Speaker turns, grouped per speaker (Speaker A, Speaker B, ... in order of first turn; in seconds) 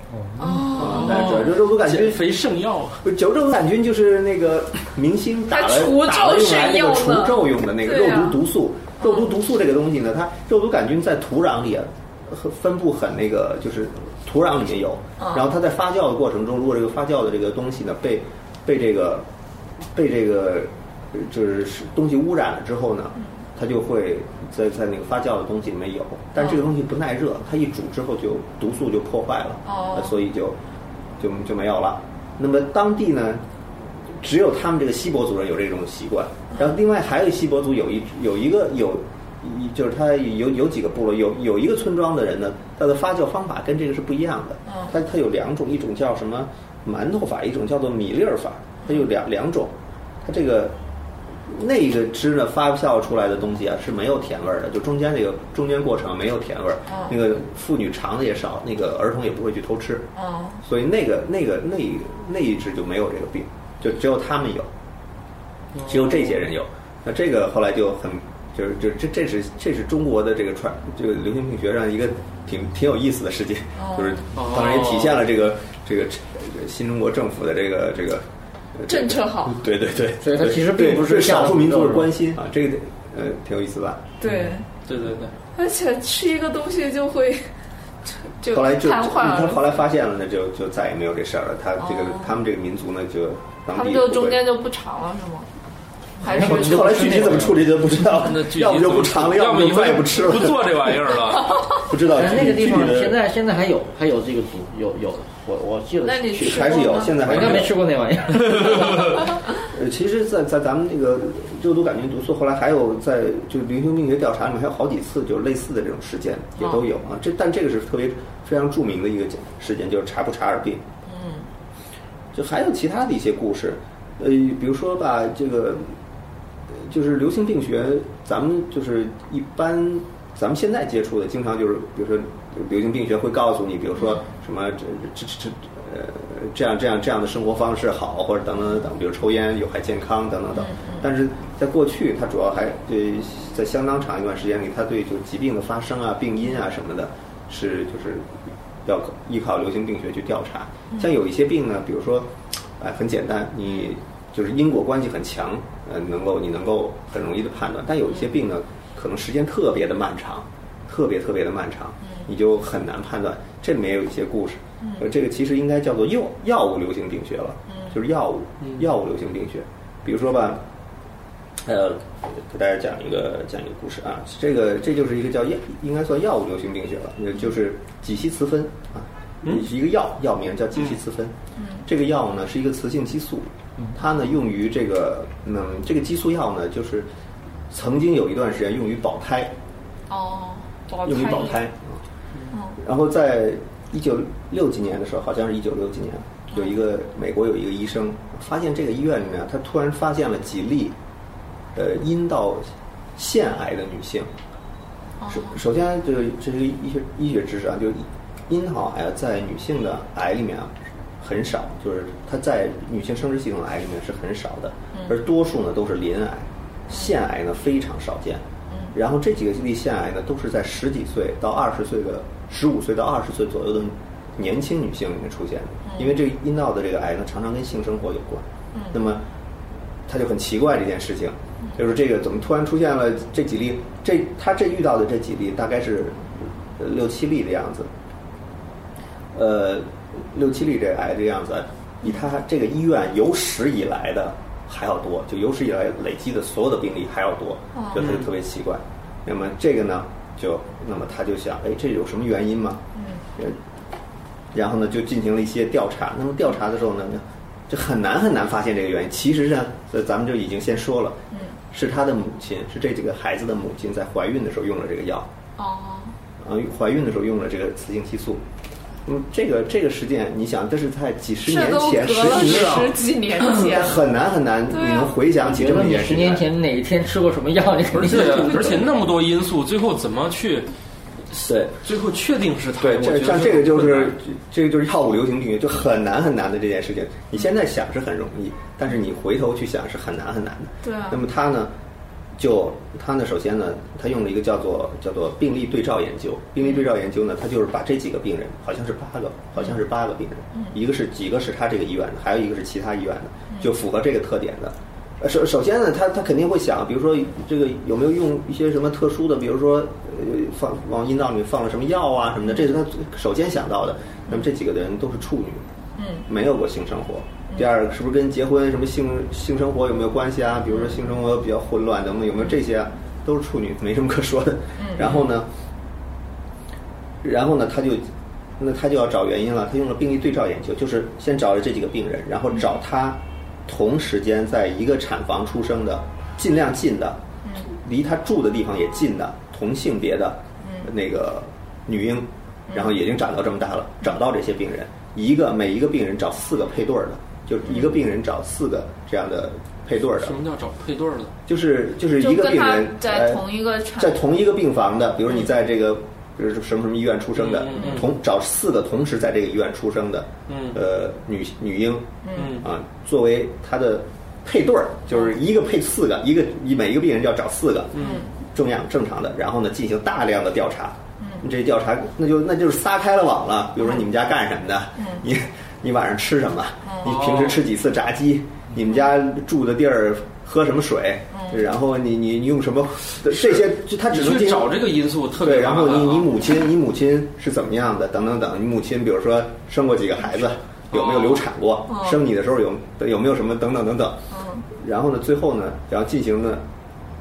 Speaker A: 0.1-0.7, 80.2-82.2, 84.3-84.6, 96.2-97.6, 102.1-109.0, 275.4-278.7
Speaker B: 0.4-1.3, 5.5-8.4, 9.0-9.3, 15.2-15.5, 29.7-30.2, 44.7-44.9, 56.9-57.1, 60.2-60.6, 73.8-74.2, 78.9-79.6, 84.2-84.7, 85.5-87.5, 88.1-89.8, 91.8-92.4, 93.7-95.5, 96.2-97.4, 106.0-107.2, 121.1-121.5, 140.6-141.0, 167.7-168.0, 181.6-181.9, 190.1-191.6, 192.5-192.8, 205.2-205.6, 225.9-226.2, 247.8-248.0, 253.0-253.3, 265.6-266.2, 271.5-274.1, 274.7-275.2, 290.8-291.2, 316.0-316.2, 324.8-325.1, 340.6-340.9, 352.2-354.2, 357.8-358.1, 362.2-362.6, 368.0-368.3, 371.2-371.5, 375.0-375.2, 381.3-381.6, 391.9-392.2, 394.3-394.7
Speaker C: 0.7-3.1, 65.7-66.3, 74.3-75.2, 84.8-85.4, 98.1-101.6, 107.4-107.6, 108.3-109.1, 247.9-248.3, 272.2-272.8, 277.9-280.7, 281.3-284.2, 350.2-351.3, 357.4-358.1, 360.5-360.8, 362.3-362.7, 367.9-368.3, 377.0-377.6, 383.4-386.3, 390.9-391.5
Speaker D: 0.7-2.4, 3.0-19.3, 19.9-30.6, 31.2-33.4, 34.2-50.8, 51.5-60.1, 60.6-64.7, 65.9-84.1, 88.4-94.4, 96.3-101.2, 101.8-103.2, 106.3-107.7, 109.6-120.8, 122.3-126.0, 126.7-170.7, 171.6-187.1, 187.7-189.5, 191.0-192.0, 192.8-201.0, 201.7-204.3, 205.3-229.2, 230.1-237.9, 239.3-252.8, 254.5-261.2, 261.7-265.3, 266.4-268.4, 269.1-276.4, 281.4-281.8, 282.8-291.7, 292.4-315.7, 316.3-325.5, 327.2-350.4, 351.5-384.8, 385.4-396.6